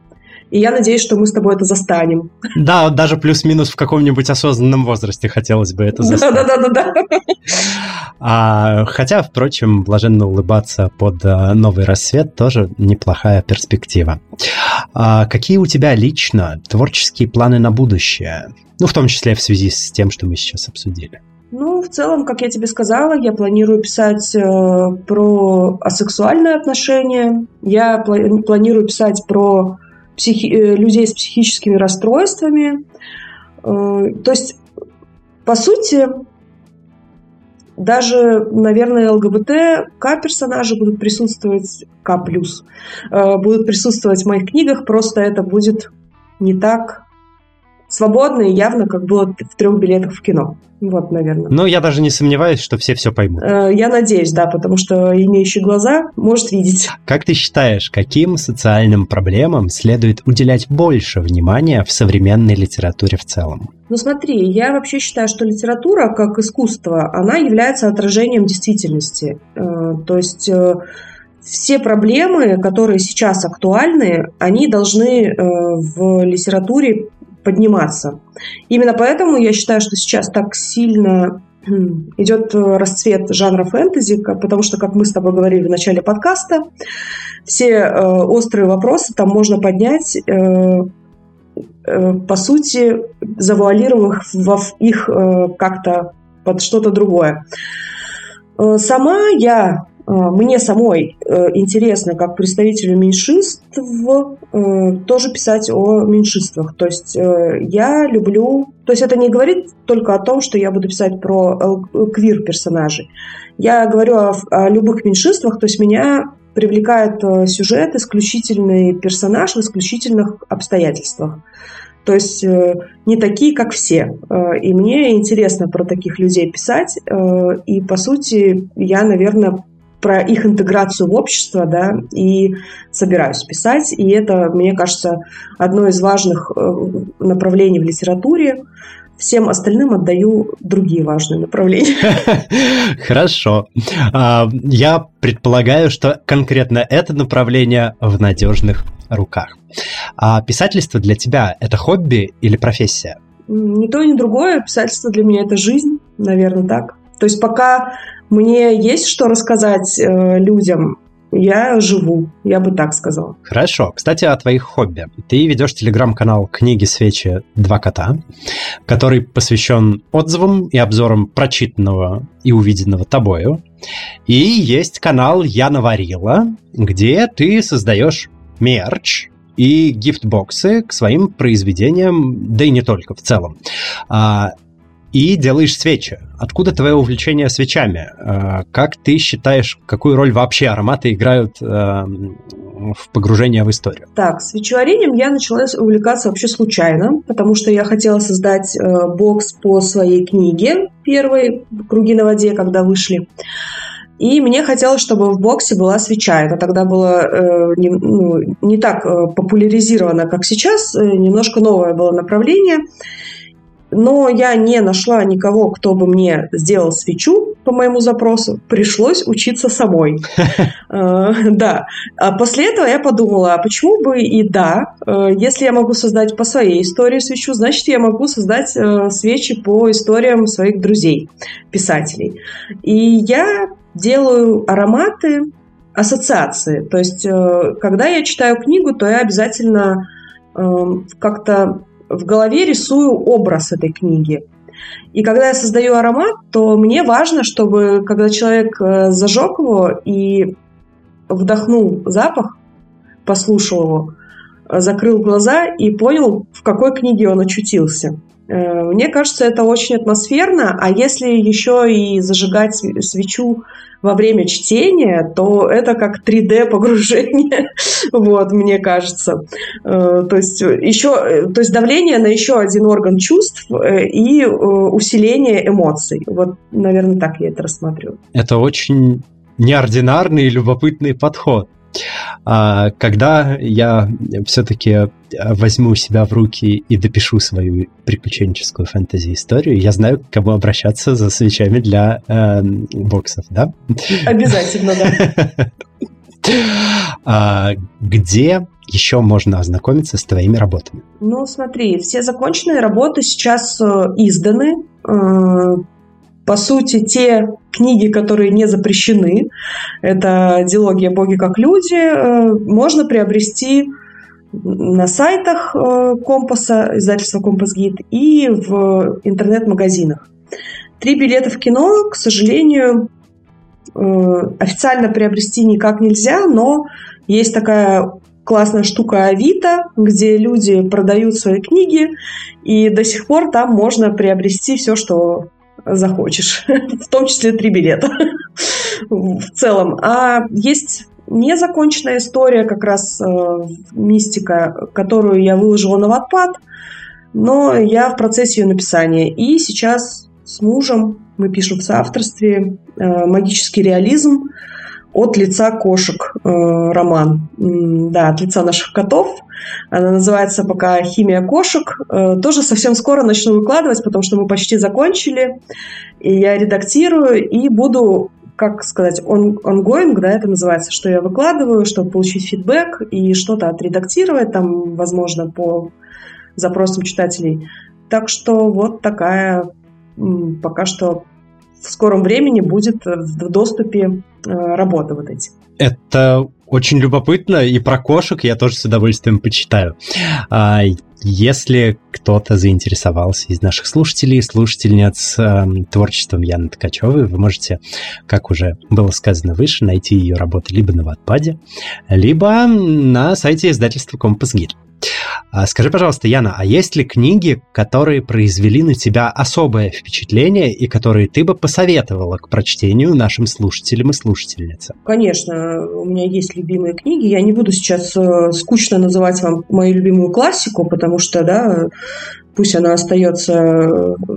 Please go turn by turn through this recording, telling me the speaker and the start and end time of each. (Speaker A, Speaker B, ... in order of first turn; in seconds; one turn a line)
Speaker A: 0.5-2.3
Speaker B: 2.5-6.5
Speaker A: 6.0-7.3
Speaker B: 8.2-14.2
Speaker B: 14.9-21.2
Speaker A: 21.5-32.8
Speaker A: 33.6-34.6
Speaker A: 35.5-36.1
Speaker A: 37.8-47.0
Speaker A: 47.9-51.5
Speaker B: 51.5-53.5
Speaker A: 53.4-56.9
Speaker B: 57.1-63.7
Speaker A: 63.9-70.8
Speaker A: 71.4-78.2
Speaker A: 78.7-86.7
Speaker A: 87.5-90.9
Speaker A: 91.8-97.4
Speaker A: 98.6-121.4
Speaker A: 122.0-138.6
Speaker A: 139.2-142.3
Speaker B: 142.1-149.6
Speaker B: 150.2-153.2
Speaker A: 153.5-163.4
Speaker B: 163.5-168.2
Speaker B: 168.9-173.6
Speaker B: 174.3-183.6
Speaker B: 184.1-184.5
Speaker B: 185.1-194.1
Speaker A: 194.2-203.3
Speaker A: 204.2-212.8
Speaker A: 213.9-220.3
Speaker A: 220.9-244.5
Speaker A: 245.1-250.5
Speaker A: 251.3-252.6
Speaker A: 253.2-254.1
Speaker A: 254.7-278.2
Speaker B: 278.3-281.7
Speaker B: 282.5-294.2
Speaker A: 294.2-295.3
Speaker B: 295.1-295.7
Speaker B: 296.4-301.0
Speaker A: 301.2-305.8
Speaker A: 306.5-309.5
Speaker A: 310.0-313.9
Speaker A: 314.5-320.3
Speaker A: 321.0-323.1
Speaker A: 323.9-346.6
Speaker A: 347.3-354.5
Speaker A: 355.1-365.6
Speaker A: 366.2-375.9
Speaker A: 376.6-381.2
Speaker A: 381.8-385.5
Speaker B: 385.8-401.6
Speaker B: 402.1-404.8
Speaker B: 405.5-415.0
Speaker A: 415.1-421.9
Speaker A: 422.6-424.2